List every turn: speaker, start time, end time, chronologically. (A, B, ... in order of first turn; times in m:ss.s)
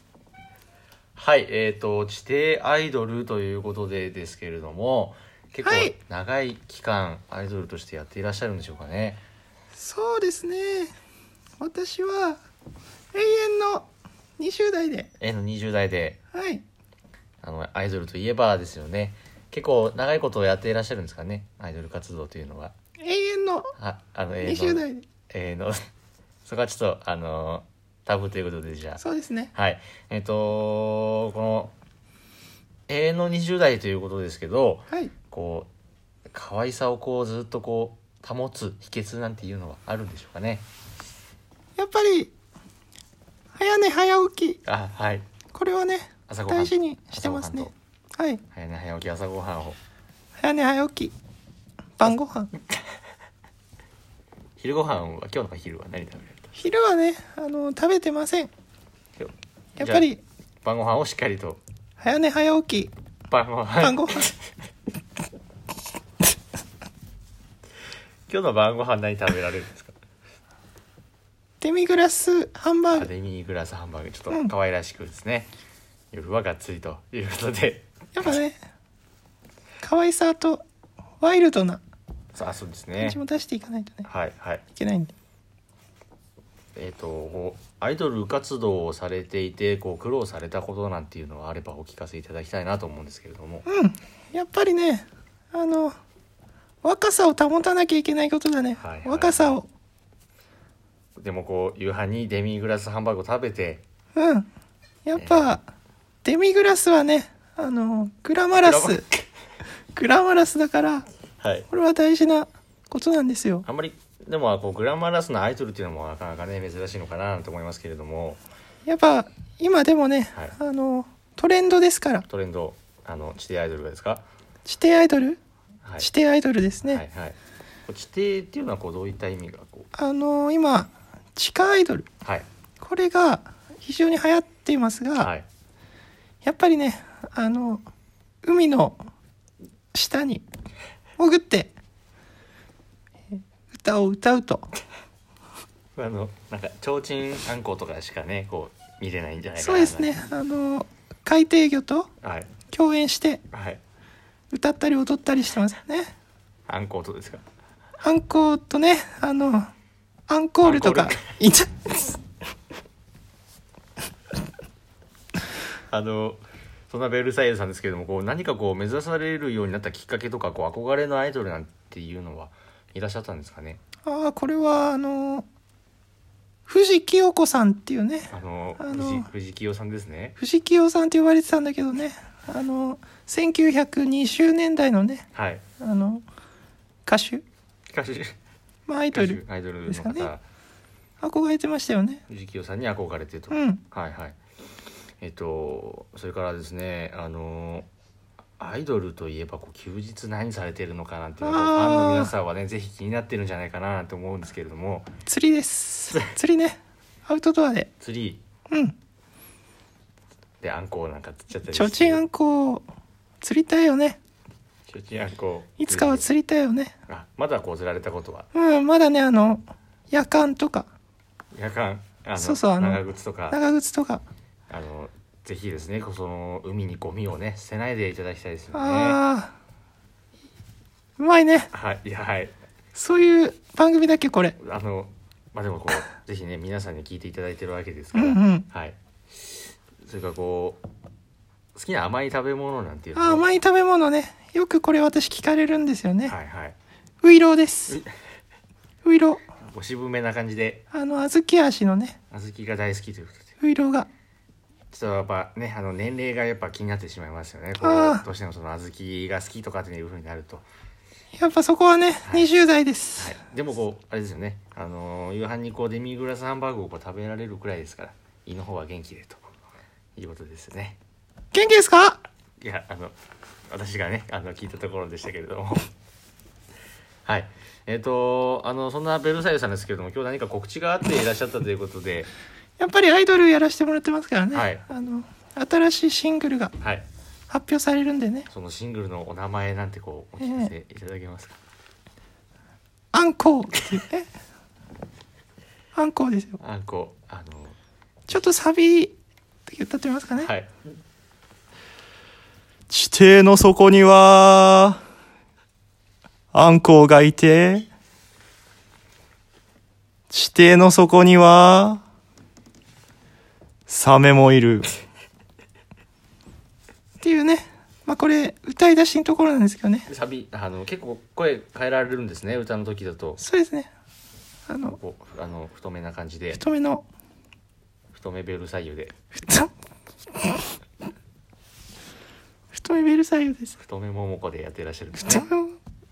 0:01.2-0:09.2 A
0:05.6-0:05.9 B
0:09.7-0:11.0 B
0:11.6-0:12.4 B
0:13.1-0:13.9 B
0:14.4-0:15.1 B
0:15.2-0:16.2 A
0:16.3-0:16.6 B
0:17.4-0:22.7 A
0:23.0-0:23.7 B
0:23.8-0:25.8 A
0:24.4-0:25.0 B
0:26.5-0:29.0 A
0:29.0-0:29.5 B
0:29.5-0:31.7 A
0:32.9-0:35.7 A
0:36.3-0:40.6 A
0:41.8-0:42.3 B
0:43.6-0:44.6 B
0:44.6-0:45.2 A
0:45.5-0:48.4 B
0:46.3-0:47.7 A
0:48.5-0:49.8 A
0:50.4-0:51.1 B
0:52.0-0:52.5 B
0:54.6-0:56.5 A
0:56.6-0:58.5 B
0:59.2-1:00.1 A
0:59.8-1:00.2 B
1:00.6-1:01.6 A
1:02.0-1:02.9 B
1:03.3-1:04.4 A
1:03.8-1:04.3 B
1:08.3-1:09.9 A
1:11.6-1:13.1 B
1:12.9-1:15.5 A
1:16.1-1:18.3 A
1:18.1-1:18.6 B
1:19.8-1:20.6 B
1:21.2-1:21.8 B
1:22.4-1:23.2 A
1:23.0-1:24.1 B
1:24.0-1:24.6 A
1:24.8-1:25.1 B
1:26.8-1:33.7 A
1:33.7-1:36.0 B
1:36.8-1:39.7 B
1:38.8-1:39.6 A
1:41.2-1:43.8 A
1:44.2-1:44.5 B
1:45.0-1:45.6 B
1:45.2-1:45.6 A
1:46.2-1:49.0 B
1:48.5-1:49.2 A
1:49.9-1:51.1 B
1:51.4-1:51.7 A
1:51.7-1:53.7 B
1:53.7-1:58.4 A
1:58.9-2:02.3 B
2:02.3-2:04.2 A
2:04.7-2:05.4 B
2:05.8-2:06.1 A
2:06.0-2:07.0 B
2:06.8-2:09.9 A
2:10.0-2:12.1 B
2:12.8-2:15.3 B
2:15.2-2:15.5 A
2:16.4-2:17.8 B
2:18.4-2:19.0 B
2:19.9-2:20.4 B
2:21.2-2:21.7 B
2:23.7-2:24.7 B
2:26.0-2:30.1 A
2:29.6-2:32.1 B
2:32.2-2:32.5 A
2:32.7-2:33.4 B
2:33.5-2:33.8 A
2:34.5-2:36.1 B
2:36.7-2:37.4 A
2:38.0-2:39.7 B
2:40.3-2:42.2 B
2:40.6-2:41.3 A
2:45.9-2:53.8 A
2:54.1-2:55.5 B
2:56.7-2:59.3 B
2:58.3-3:00.4 A
3:00.4-3:05.2 B
3:05.3-3:05.6 A
3:05.8-3:06.2 B
3:07.1-3:07.4 B
3:07.9-3:08.3 A
3:08.9-3:10.3 B
3:09.1-3:10.4 A
3:11.2-3:12.2 B
3:12.3-3:14.4 A
3:13.5-3:13.8 B
3:15.2-3:17.9 A
3:18.6-3:25.1 A
3:21.4-3:22.3 B
3:25.3-3:27.9 B
3:28.0-3:28.4 A
3:28.7-3:29.0 B
3:30.6-3:32.2 A
3:31.7-3:32.9 B
3:33.4-3:34.2 B
3:34.9-3:36.3 A
3:35.8-3:37.0 B
3:37.1-3:38.5 A
3:38.5-3:40.9 B
3:41.5-3:43.6 A
3:42.4-3:44.2 B
3:44.7-3:49.2 A
3:48.7-3:49.6 B
3:51.2-3:51.7 B
3:51.7-3:52.5 A
3:53.0-3:54.6 B
3:54.6-4:00.8 A
3:58.1-3:58.7 B
4:01.8-4:03.4 A
4:03.2-4:06.4 B
4:06.3-4:06.8 A
4:07.2-4:08.0 B
4:09.0-4:09.4 B
4:09.7-4:10.8 A
4:10.9-4:12.2 B
4:12.3-4:13.5 A
4:13.6-4:14.1 B
4:14.9-4:20.7 A
4:17.8-4:18.2 B
4:21.4-4:23.4 B
4:23.2-4:29.4 A
4:30.2-4:31.0 A
4:31.5-4:32.2 B
4:32.6-4:33.1 A
4:33.7-4:35.8 A
4:37.3-4:42.3 A
4:42.8-4:46.7 B
4:44.5-4:44.9 A
4:46.8-4:47.1 A
4:47.5-4:48.5 B
4:48.5-4:51.6 A
4:50.4-4:50.7 B
4:53.1-4:54.3 B
4:56.0-4:56.6 B
4:56.6-4:57.8 A
4:58.3-4:59.2 B
4:59.7-5:00.5 B
5:00.4-5:00.7 A
5:02.9-5:05.0 B
5:06.5-5:07.9 B
5:10.3-5:12.0 B
5:13.9-5:14.9 B
5:17.2-5:20.1 B
5:20.1-5:23.4 A
5:23.4-5:23.9 B
5:24.7-5:25.0 B
5:24.8-5:26.6 A
5:26.5-5:27.0 B
5:28.1-5:29.1 A
5:29.4-5:29.7 B
5:32.7-5:33.8 B
5:33.8-5:35.5 A
5:35.2-5:35.8 B